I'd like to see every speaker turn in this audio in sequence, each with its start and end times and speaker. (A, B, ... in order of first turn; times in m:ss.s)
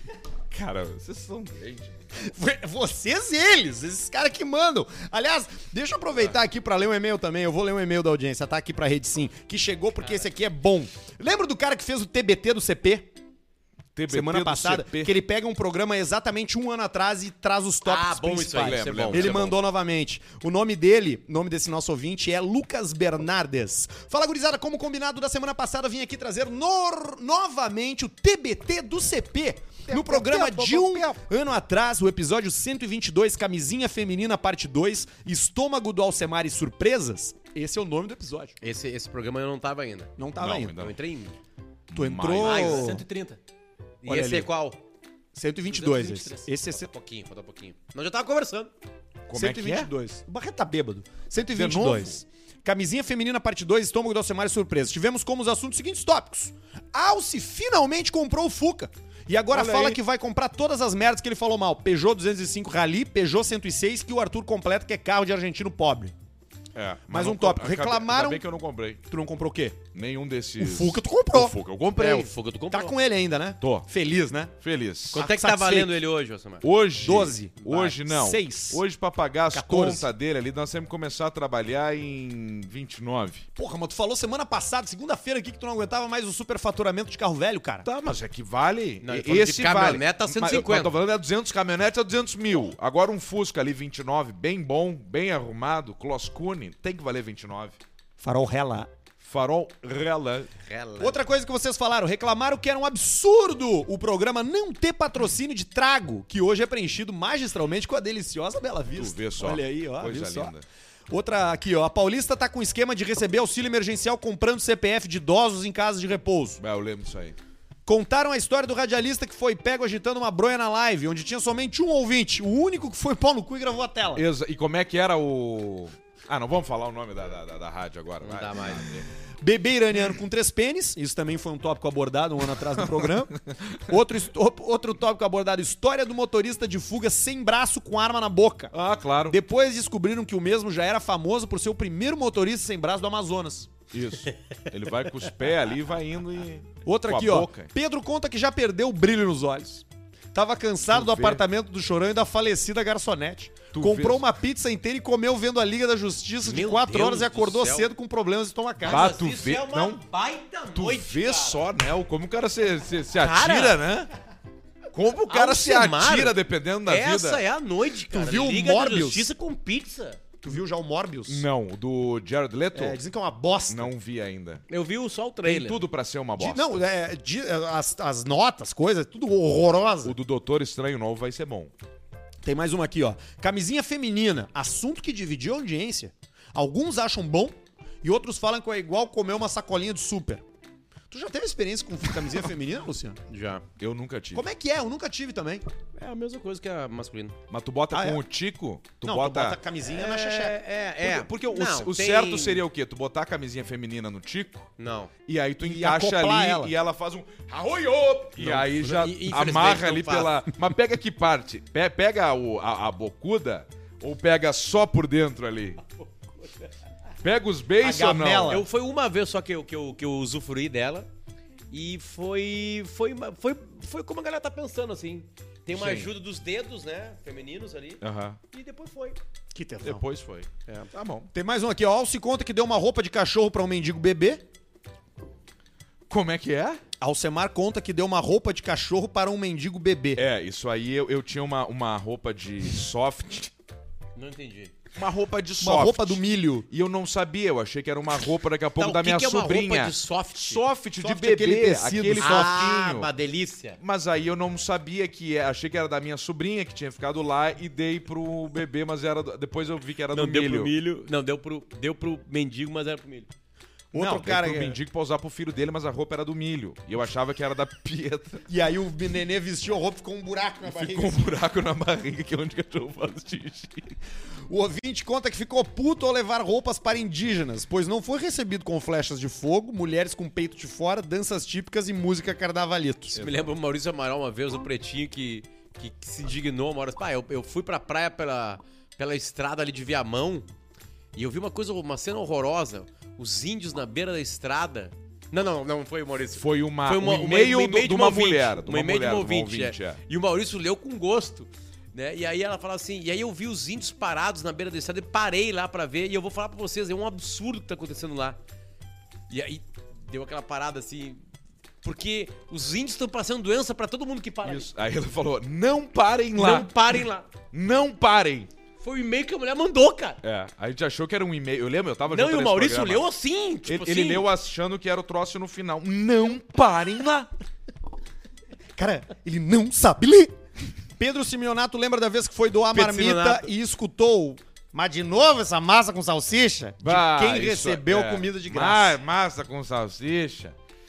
0:00.5-0:02.0 A
0:02.1-0:13.1 B
0:14.0-0:15.1 A
0:14.1-0:38.5 B
0:17.8-0:19.5 C
0:18.5-0:19.6 A
0:29.9-0:31.0 A
0:30.1-0:30.7 C
0:38.6-0:40.1 C
0:40.2-0:40.8 B
0:40.4-0:41.0 A
0:40.7-0:41.4 C
0:41.9-0:43.0 A
0:41.9-0:43.0 B
0:42.4-0:43.4 C
0:44.0-0:44.8 C
0:44.0-0:44.5 B
0:45.3-0:46.8 B
0:45.6-0:48.7 C
0:49.3-0:49.9 A
0:49.3-1:06.1 B
0:51.5-0:52.2 A
0:59.5-1:00.0 A
1:06.7-1:09.0 A
1:07.1-1:08.4 B
1:09.1-1:09.8 B
1:09.9-1:12.3 A
1:10.6-1:11.6 B
1:12.0-1:12.9 C
1:12.7-1:14.5 B
1:13.6-1:13.9 A
1:14.6-1:15.2 A
1:15.1-1:16.6 C
1:15.1-1:16.0 B
1:16.6-1:23.4 A
1:17.0-1:18.8 B
1:19.5-1:20.1 B
1:23.6-1:27.8 B
1:27.8-1:37.8 A
1:29.0-1:30.9 C
1:38.2-1:38.9 B
1:39.2-1:40.5 A
1:40.6-1:41.2 C
1:41.0-1:50.6 B
1:48.9-1:50.6 A
1:51.1-1:56.6 B
1:56.6-1:57.4 A
1:57.8-2:04.2 B
2:04.1-2:09.1 A
2:08.2-2:09.0 C
2:09.4-2:18.7 B
2:18.7-2:19.4 A
2:19.3-2:23.7 B
2:23.9-2:27.7 A
2:26.8-2:39.1 B
2:30.9-2:31.4 A
2:33.7-2:34.2 A
2:36.4-2:37.9 C
2:38.8-2:41.6 C
2:38.8-2:40.0 A
2:40.7-2:44.1 A
2:43.2-2:43.8 C
2:44.9-2:47.4 A
2:45.3-2:50.2 C
2:48.1-2:49.3 B
2:50.4-2:51.4 B
2:51.3-2:53.0 A
2:52.7-2:53.9 B
2:53.7-2:54.6 A
2:54.7-2:55.8 C
2:55.4-2:56.8 A
2:56.4-3:00.2 B
3:00.0-3:01.7 A
3:02.4-3:10.4 B
3:11.1-3:13.2 B
3:13.3-3:13.6 C
3:13.8-3:14.5 A
3:14.3-3:15.6 B
3:16.0-3:17.4 C
3:17.5-3:19.6 A
3:17.9-3:18.2 B
3:19.0-3:20.6 B
3:19.9-3:22.6 C
3:21.0-3:24.7 A
3:24.8-3:25.1 C
3:25.2-3:35.8 A
3:25.6-3:26.7 B
3:28.4-3:30.5 C
3:36.4-3:36.7 C
3:37.2-3:38.6 A
3:37.8-3:38.6 B
3:38.5-3:41.1 C
3:41.7-3:49.2 C
3:45.7-3:46.1 A
3:48.0-3:48.4 A
3:49.5-3:50.0 B
3:49.8-3:51.3 A
3:51.3-3:54.4 B
3:56.1-3:56.8 A
3:57.0-4:00.2 B
4:00.2-4:03.5 A
4:04.2-4:04.8 C
4:04.9-4:13.1 A
4:05.6-4:06.7 B
4:08.8-4:10.6 C
4:11.0-4:12.7 B
4:12.2-4:13.8 C
4:13.8-4:20.7 A
4:20.1-4:23.3 C
4:23.9-4:28.4 A
4:23.9-4:24.8 B
4:28.5-4:31.4 B
4:30.6-4:34.0 A
4:34.5-4:43.1 B
4:43.1-4:43.5 A
4:43.1-4:50.5 C
4:51.1-5:08.4 C
4:56.3-5:00.0 A
5:09.3-5:11.2 C
5:11.8-5:14.7 C
5:14.4-5:17.0 A
5:16.4-5:17.3 C
5:17.5-5:18.5 A
5:18.8-5:20.2 C
5:20.2-5:23.1 A
5:22.1-5:24.3 C
5:23.6-5:27.3 A
5:28.8-5:30.3 B
5:31.0-5:39.0 B
5:32.7-5:33.5 C
5:36.8-5:40.6 A